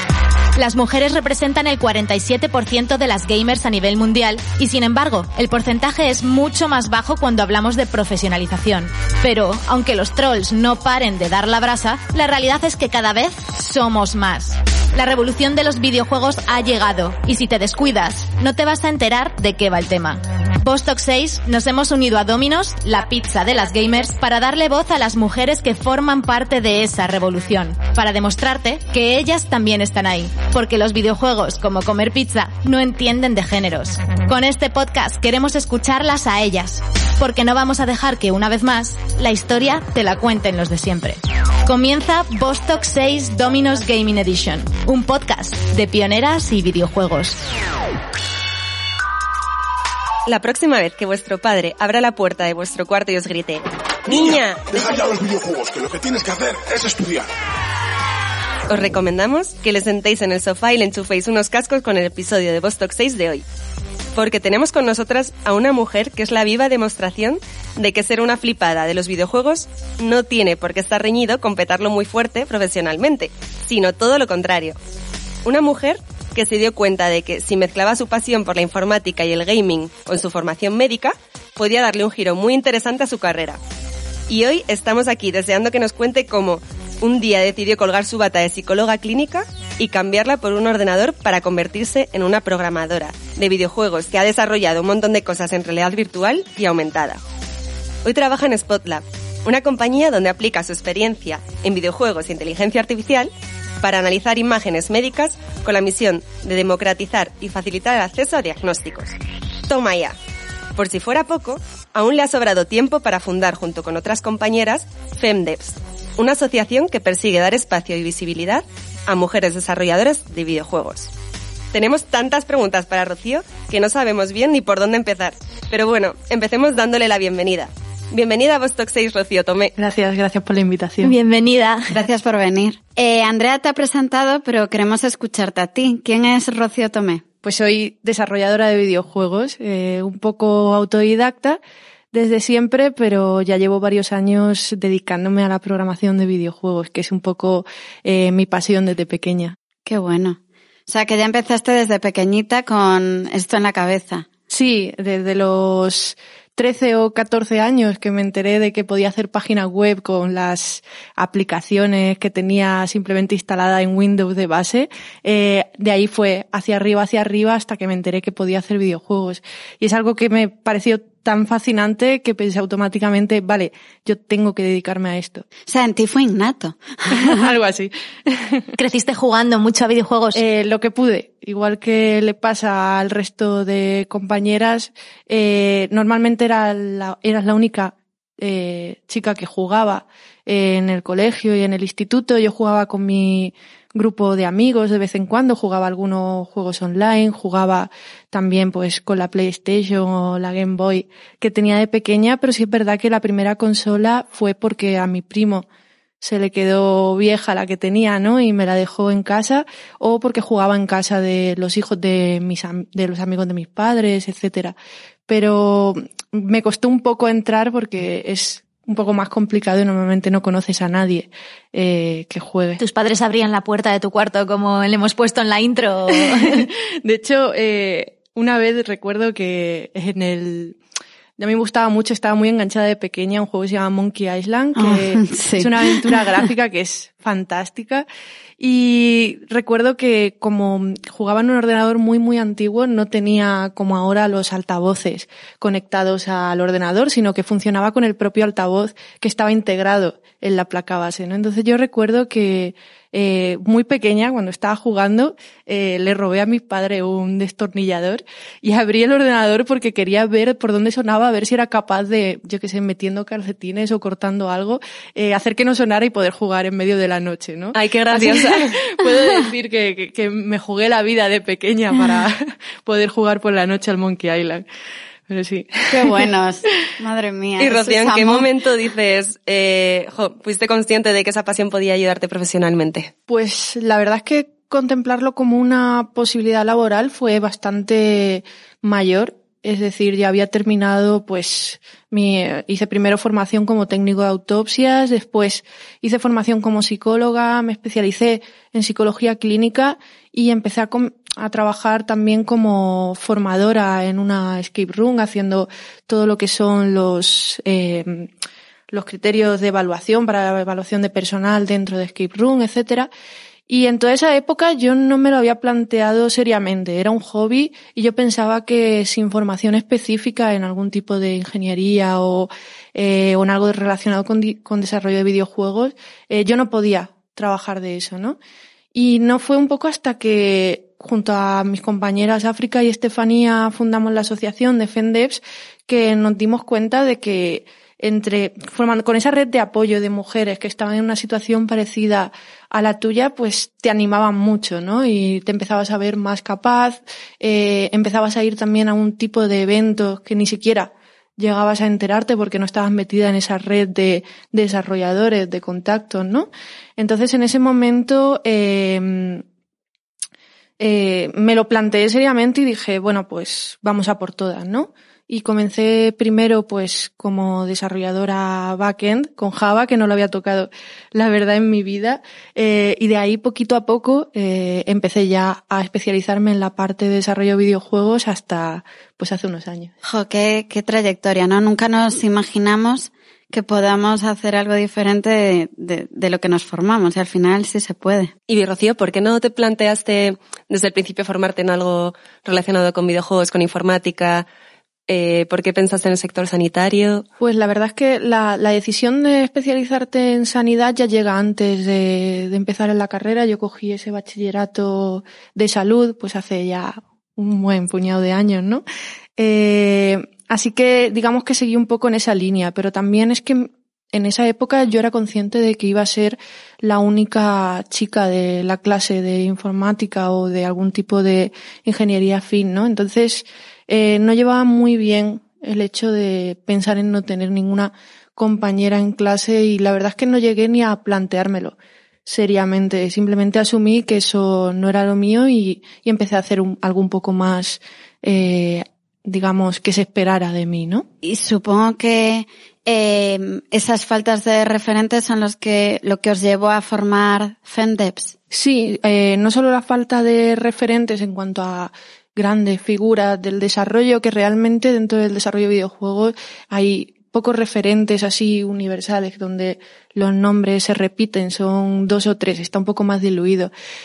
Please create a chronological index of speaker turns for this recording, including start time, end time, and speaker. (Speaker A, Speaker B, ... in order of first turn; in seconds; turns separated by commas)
Speaker A: 0.6-47.4, Speaker B: 50.3-55.1, Speaker C: 54.1-57.3, Speaker B: 58.7-63.4, Speaker B: 64.2-74.8, Speaker B: 75.5-83.6, Speaker B: 84.3-97.2, Speaker B: 98.0-109.2, Speaker B: 109.7-110.2, Speaker B: 110.8-121.1, Speaker B: 121.7-129.7, Speaker D: 129.8-131.2, Speaker A: 131.0-131.9, Speaker E: 131.9-137.2, Speaker D: 137.4-141.6, Speaker D: 142.1-149.6, Speaker E: 149.9-154.3, Speaker D: 154.5-175.4, Speaker E: 175.7-177.4, Speaker D: 177.1-178.7, Speaker A: 178.8-180.4, Speaker D: 180.3-205.7, Speaker D: 206.2-214.8, Speaker D: 215.3-222.8, Speaker A: 222.8-226.7, Speaker D: 226.2-230.8, Speaker D: 231.4-238.1, Speaker E: 234.8-236.2, Speaker D: 238.6-274.6, Speaker B: 267.8-268.9, Speaker D: 275.3-276.3, Speaker E: 275.9-278.5, Speaker B: 277.6-283.1, Speaker D: 283.3-308.3, Speaker D: 308.9-313.1, Speaker D: 313.7-328.4, Speaker D: 328.9-359.4, Speaker D: 360.8-379.9, Speaker E: 380.0-388.3, Speaker B: 388.5-394.5, Speaker B: 395.1-397.3, Speaker D: 397.4-408.8, Speaker D: 409.4-441.1, Speaker E: 441.2-448.4, Speaker D: 448.5-463.7